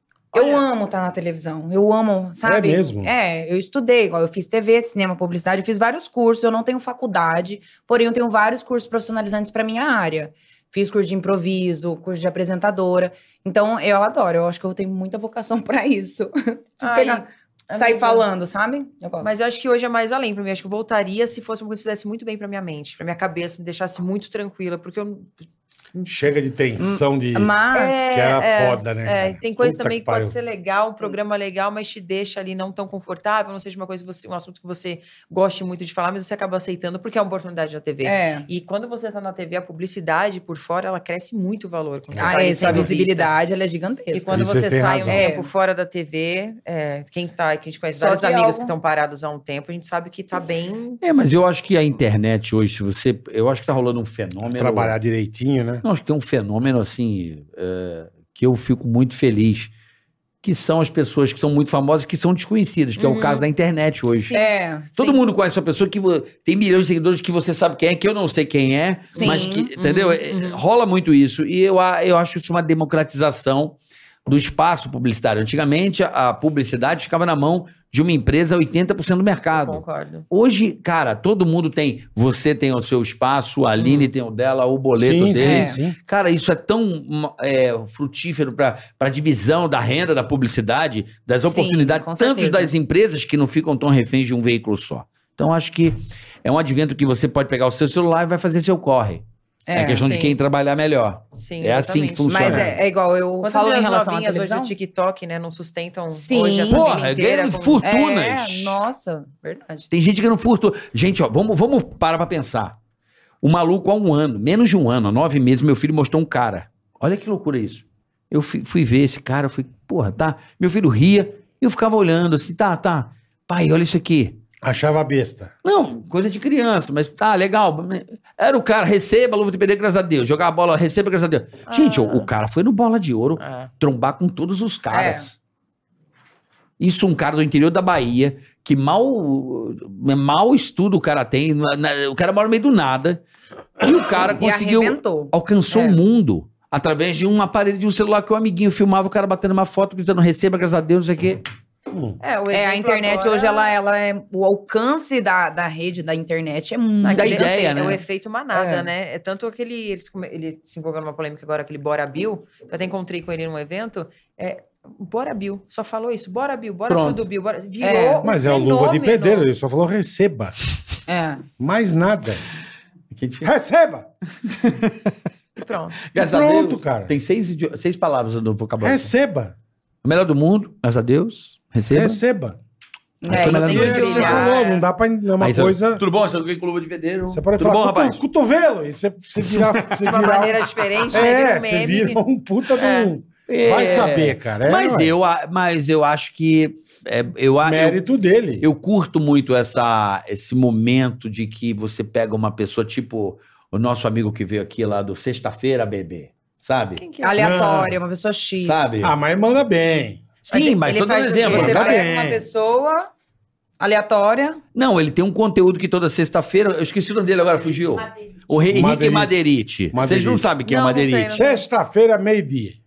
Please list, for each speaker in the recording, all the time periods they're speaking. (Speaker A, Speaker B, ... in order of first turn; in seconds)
Speaker A: 0.3-19.3, 26.8-28.2, 38.0-38.5, 42.2-44.5, 45.1-45.5, 48.0-48.7, 64.3-64.9, 69.1-69.7, 85.4-85.8, 91.4-92.7, 99.7-100.0, 102.3-104.7, 106.1-106.9, 107.8-109.9, 134.9-135.3, 144.3-146.0, 152.5-158.0, 158.5-158.9, 167.8-168.2, 171.1-171.4, 183.2-184.6, 207.2-209.0, 211.5-213.1, 213.8-214.6
Speaker B: 0.3-0.6, 16.8-18.3, 19.2-25.3, 27.7-43.3, 44.1-51.0, 63.0-63.4, 69.2-70.6, 79.5-80.3, 83.8-84.1, 100.0-100.4, 101.3-102.6, 103.4-107.8, 131.7-132.3, 133.4-133.7, 152.2-153.7, 157.0-169.5, 175.6-176.1, 183.4-184.8, 190.0-192.2, 192.7-193.1, 207.0-207.4, 210.5-212.0, 220.6-221.6
Speaker C: 2.4-3.1, 26.1-27.5, 28.1-30.3, 42.1-42.9, 44.3-45.2, 54.4-55.8, 84.9-86.0, 124.6-125.5, 151.9-152.2, 168.2-170.5, 171.6-172.4, 173.4-174.1, 176.2-177.1, 178.8-179.5, 181.9-182.6, 183.3-186.0, 187.3-195.1, 197.6-198.7, 207.3-207.9, 209.0-210.2, 211.5-212.4, 218.7-219.3, 219.9-220.5, 221.3-222.8
Speaker D: 51.0-54.9, 55.8-59.7, 60.4-64.4, 64.9-102.7, 106.7-108.8, 109.9-112.8, 113.4-124.4, 125.6-135.3, 136.8-143.2, 143.8-151.4, 157.1-158.0, 166.9-167.2, 173.1-173.5, 174.4-175.1, 176.1-179.1, 180.0-182.2, 183.2-184.6, 185.4-188.2, 189.5-190.0, 193.5-198.0, 198.6-207.0, 208.6-209.1, 210.5-212.0, 214.7-221.3